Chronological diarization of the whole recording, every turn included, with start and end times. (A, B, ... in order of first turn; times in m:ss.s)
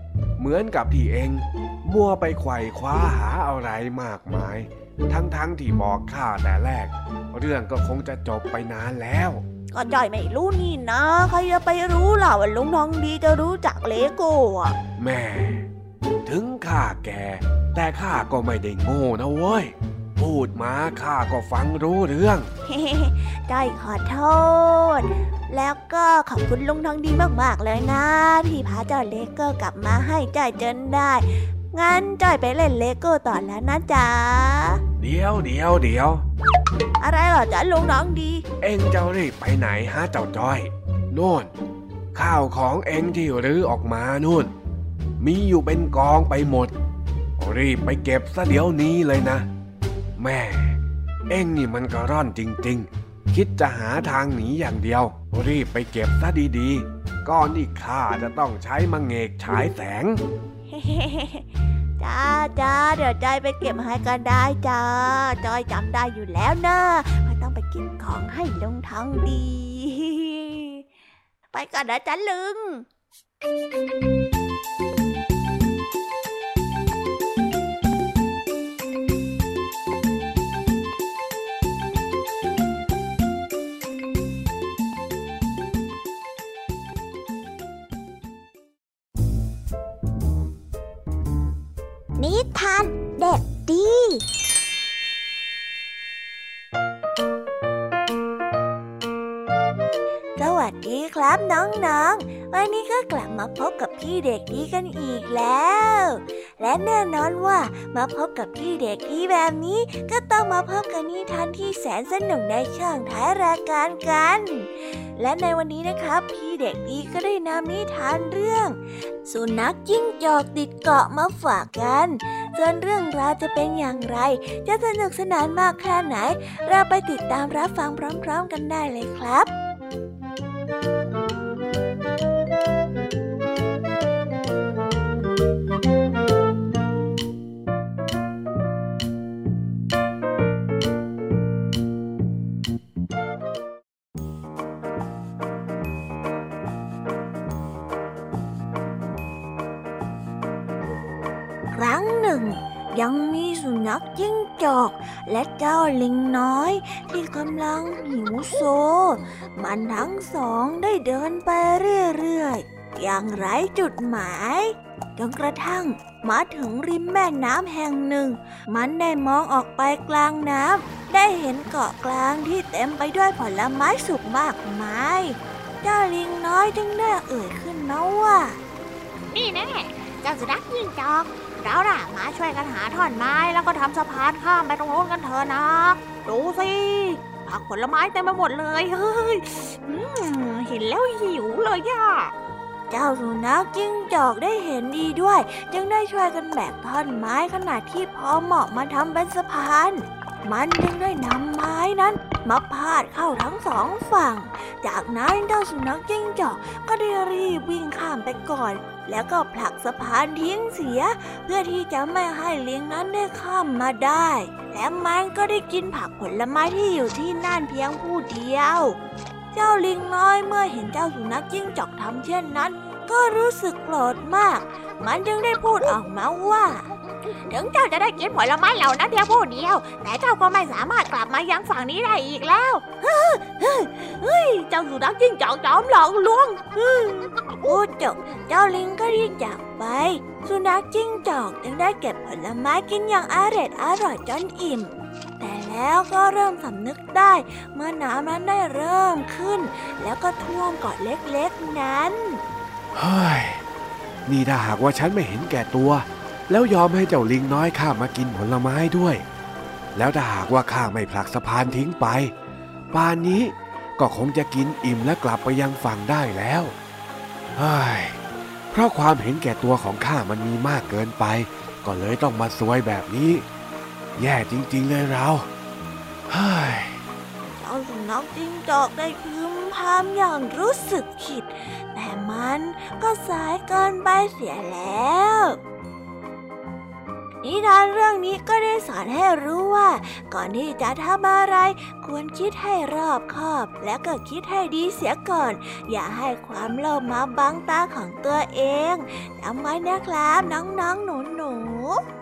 0:00.4-0:09.4 A
0:09.7-0:14.8 B
0:15.0-0:15.7 A
0:16.2-0:22.5 A
0:22.7-0:34.8 B
0:35.0-0:36.2 A
0:37.0-0:38.4 B
0:38.6-0:41.5 A
0:42.1-0:44.5 A
0:45.2-0:46.8 A
0:47.4-0:49.5 A
0:50.2-1:00.2 A
1:00.7-1:01.5 B
1:02.0-1:10.8 B
1:11.5-1:12.9 B
1:32.2-1:32.9 B
1:33.7-1:34.1 B
1:40.4-2:09.5 B
2:31.7-2:58.6 B
2:59.3-3:09.4 C
3:09.9-3:10.8 B
3:10.7-3:12.3 C
3:12.9-3:39.0 B
3:39.5-3:46.9 B
3:47.6-3:52.8 C
3:53.0-4:12.4 B
4:12.9-4:13.6 A
4:14.3-4:19.2 A
4:20.0-4:22.3 A
4:22.9-4:26.7 A
4:27.6-4:28.2 A
4:28.7-4:33.4 A
4:34.2-4:35.5 A
4:36.3-4:37.0 A
4:37.6-4:45.6 B
4:47.4-5:02.0 B